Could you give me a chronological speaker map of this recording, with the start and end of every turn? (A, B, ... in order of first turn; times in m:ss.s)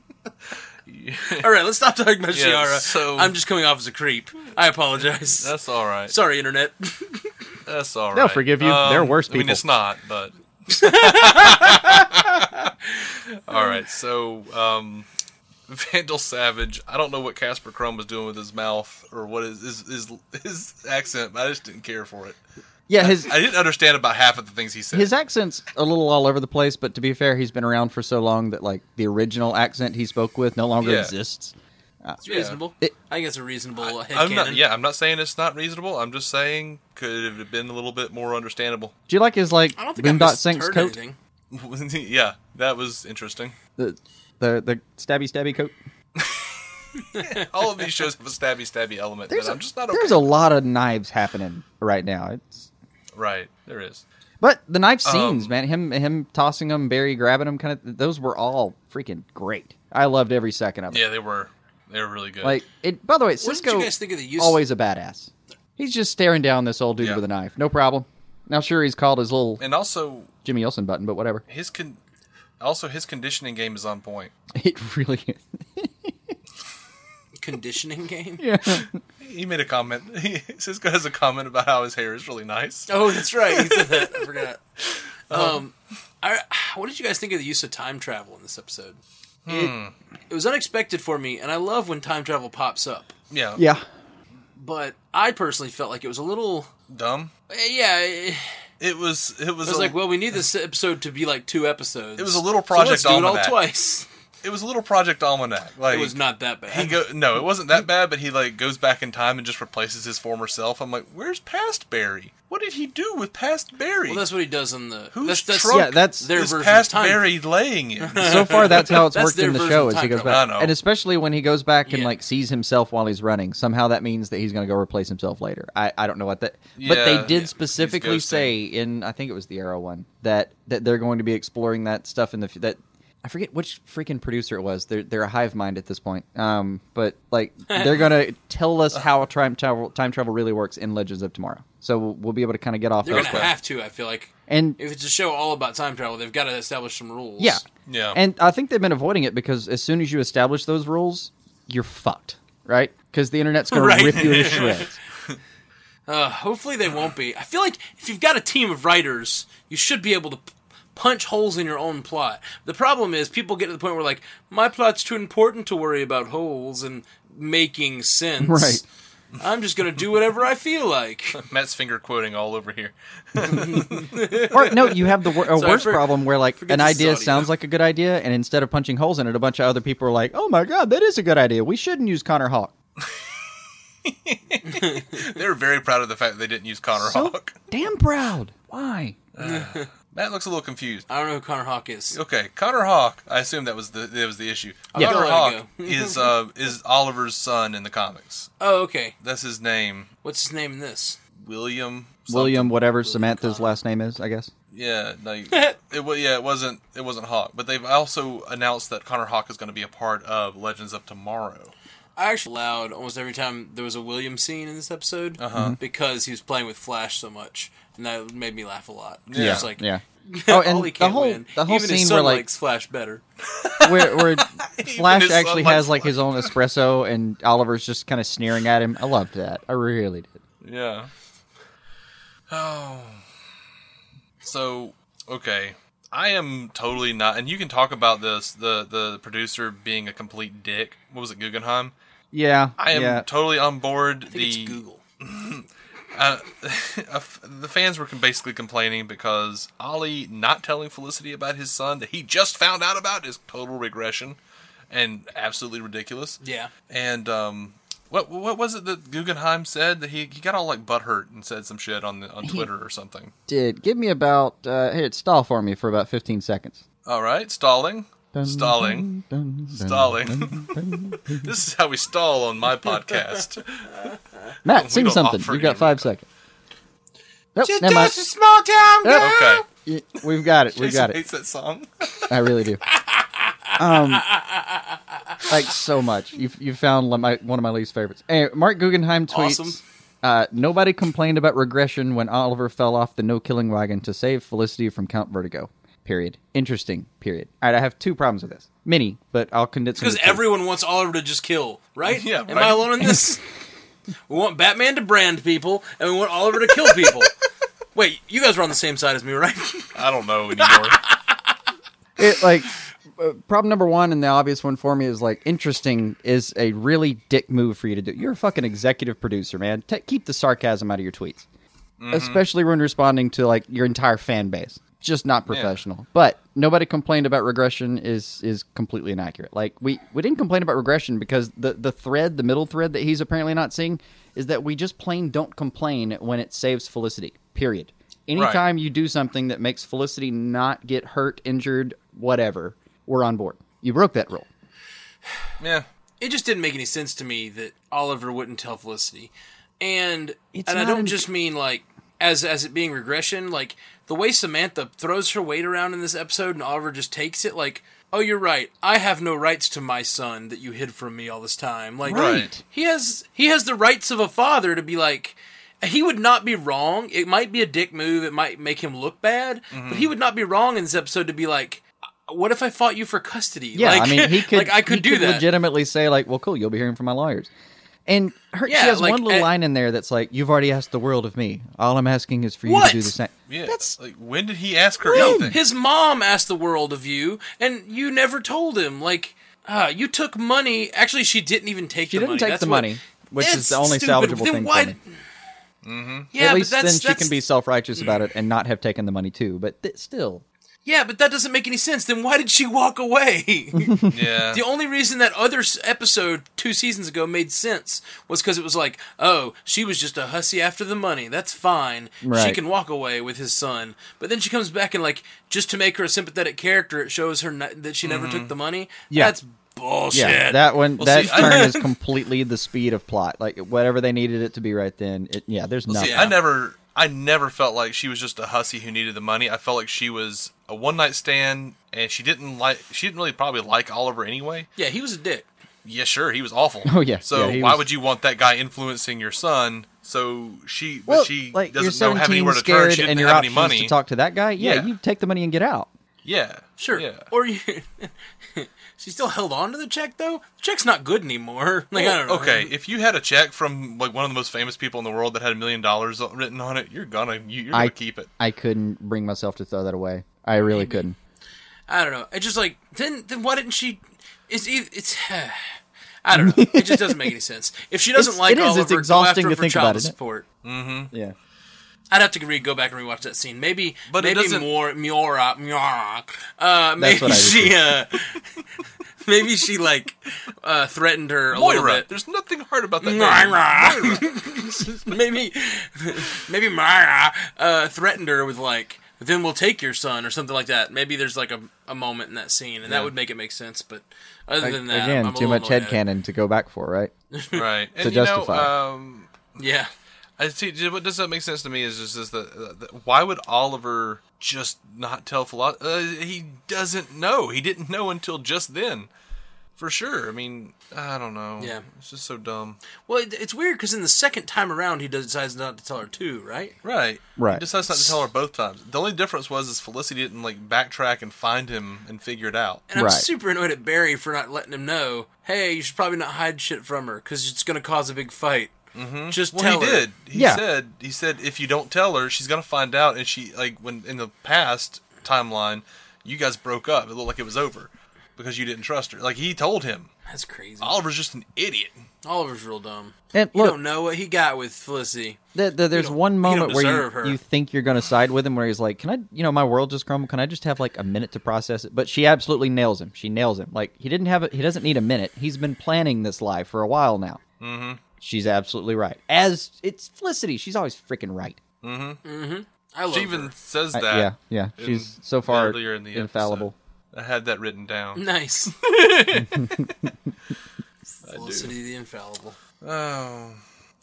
0:00.9-0:01.5 A
0:01.4-0:05.5 B
0:02.3-0:03.3 A
0:05.4-0:06.1 A
0:06.1-0:07.3 B
0:07.6-0:15.1 A
0:08.1-0:09.6 C
0:10.7-0:11.8 B
0:15.7-0:22.4 A
0:22.9-0:23.4 C
0:23.0-0:25.1 A
0:24.9-0:32.9 C
0:30.8-0:31.1 A
0:32.2-0:34.6 B
0:32.2-0:32.6 A
0:33.8-0:38.9 A
0:39.1-0:41.0 C
0:39.8-0:41.2 B
0:41.5-0:43.5 A
0:43.8-0:45.7 C
0:46.2-0:46.5 A
0:47.0-0:47.4 B
0:47.1-0:50.2 A
0:49.3-0:52.7 C
0:53.1-0:54.0 A
0:54.4-1:01.0 C
0:55.0-0:55.5 A
1:00.9-1:02.6 A
1:02.4-1:09.6 C
1:03.4-1:04.6 B
1:09.6-1:10.3 A
1:10.4-1:11.4 C
1:11.5-1:12.0 A
1:12.6-1:14.3 A
1:14.5-1:16.1 C
1:17.4-1:18.4 B
1:18.4-1:19.0 C
1:19.2-1:24.2 A
1:22.9-1:24.6 B
1:25.3-1:25.6 A
1:25.3-1:29.7 B
1:29.4-1:29.9 A
1:30.3-1:33.1 B
1:33.3-1:33.6 A
1:33.6-1:33.8 C
1:34.6-1:36.7 B
1:36.9-1:37.3 A
1:37.5-1:38.5 B
1:38.8-1:40.0 A
1:39.6-1:44.1 B
1:42.2-1:43.6 A
1:44.4-1:46.2 A
1:45.9-1:47.0 B
1:46.7-1:54.2 A
1:54.1-1:57.2 B
1:55.1-1:59.0 A
1:55.7-1:56.3 C
1:58.0-2:00.4 B
1:58.2-2:23.5 C
2:00.2-2:00.7 A
2:01.9-2:02.1 B
2:06.8-2:08.5 A
2:17.7-2:17.9 B
2:23.0-2:27.6 B
2:23.1-2:23.5 A
2:24.5-2:24.8 C
2:27.4-2:35.0 C
2:27.8-2:28.2 A
2:33.7-2:34.8 B
2:34.3-2:34.6 A
2:36.1-2:48.8 B
2:48.4-2:48.8 C
2:49.4-2:51.4 B
2:51.4-2:54.2 A
2:53.4-2:54.9 B
2:54.5-3:02.7 C
2:55.5-2:57.5 B
2:55.6-2:55.9 A
3:03.0-3:03.3 A
3:04.0-3:07.6 A
3:04.6-3:05.2 B
3:07.0-3:09.2 C
3:09.3-3:11.1 A
3:09.4-3:09.9 B
3:11.1-3:12.2 B
3:12.1-3:18.5 A
3:14.9-3:16.3 B
3:18.6-3:19.1 B
3:19.2-3:20.1 A
3:20.2-3:21.2 B
3:21.4-3:22.7 A
3:22.3-3:24.5 C
3:23.0-3:23.8 B
3:24.7-3:31.7 A
3:25.5-3:25.8 B
3:32.2-3:43.2 B
3:35.4-3:35.8 A
3:35.5-3:35.8 C
3:39.3-3:39.7 A
3:39.3-3:42.5 C
3:43.5-3:46.5 A
3:43.8-3:50.4 C
3:50.6-3:51.1 A
3:52.5-3:53.2 A
3:54.4-4:01.9 A
4:02.3-4:03.3 C
4:02.8-4:14.4 A
4:04.3-4:05.0 B
4:14.9-4:23.3 A
4:16.4-4:16.7 B
4:23.5-4:26.8 C
4:27.0-4:29.1 A
4:28.3-4:31.5 C
4:29.7-4:34.0 A
4:34.6-4:36.2 C
4:34.7-4:36.1 A
4:37.5-4:38.1 C
4:37.6-4:39.6 B
4:39.0-4:41.2 C
4:39.2-4:39.6 A
4:40.7-4:42.3 A
4:42.3-4:42.8 C
4:42.9-4:45.4 B
4:43.8-4:44.3 C
4:45.5-5:00.4 C
4:49.3-4:49.8 B
5:00.0-5:03.4 B
5:02.1-5:03.1 A
5:04.3-5:07.3 B
5:07.9-5:09.9 B
5:09.9-5:11.0 A
5:12.2-5:21.4 C
5:22.0-5:22.4 A
5:22.1-5:44.5 C
5:25.5-5:25.7 A
5:38.3-5:38.6 A
5:45.6-5:45.8 A
5:46.2-6:15.5 B
5:50.5-5:51.3 C
6:02.0-6:02.6 C
6:02.1-6:02.5 A
6:09.7-6:10.1 A
6:13.7-6:17.5 C
6:18.1-6:23.9 C
6:18.6-6:19.5 B
6:22.6-6:23.1 B
6:23.5-6:25.6 A
6:25.0-6:25.5 C
6:25.1-6:35.1 B
6:32.1-6:35.0 C
6:35.8-6:36.3 A
6:36.3-6:37.4 B
6:36.3-6:40.4 C
6:37.9-6:38.2 B
6:40.8-6:44.0 B
6:43.8-6:44.1 C
6:44.1-6:44.6 A
6:44.5-7:01.9 B
6:52.2-6:52.6 C
6:58.0-6:58.5 A
6:59.1-6:59.3 C
7:00.1-7:06.3 C
7:01.0-7:01.7 A
7:05.9-7:14.7 A
7:06.0-7:06.4 B
7:14.8-7:15.5 B
7:15.8-7:23.9 A
7:16.8-7:17.8 C
7:21.1-7:25.9 C
7:24.6-7:24.9 A
7:26.2-7:27.3 A
7:26.8-7:32.7 B
7:31.9-7:38.3 A
7:37.7-7:41.1 C
7:40.7-7:41.0 B
7:41.9-7:50.4 B
7:46.3-7:47.2 C
7:48.2-7:50.1 C
7:50.6-7:51.1 A
7:52.1-7:58.4 B
7:54.1-7:54.7 A
7:57.0-7:57.8 C
7:59.2-8:02.1 B
8:01.5-8:04.8 A
8:03.0-8:16.0 B
8:14.6-8:17.1 C
8:17.3-8:17.6 B
8:17.5-8:19.5 A
8:18.0-8:18.7 C
8:19.6-8:19.9 B
8:20.4-8:29.1 A
8:29.8-8:32.8 A
8:31.6-8:31.8 B
8:33.0-8:36.8 B
8:36.8-8:42.8 A
8:37.4-8:38.1 C
8:42.9-8:48.7 B
8:42.9-8:43.3 C
8:48.9-9:00.1 A
8:49.3-8:50.1 B
8:50.3-8:50.6 C
9:00.3-9:01.0 B
9:00.8-9:02.0 A
9:02.2-9:05.4 B
9:03.3-9:03.8 C
9:05.5-9:17.4 C
9:05.9-9:07.4 B
9:17.6-9:18.0 A
9:18.2-9:21.6 C
9:21.8-9:22.2 A
9:22.2-9:23.5 B
9:23.1-9:29.9 A
9:23.9-9:26.7 C
9:28.2-9:28.7 B
9:29.3-9:30.1 C
9:31.2-9:32.6 B
9:31.2-9:31.7 A
9:32.8-9:33.6 A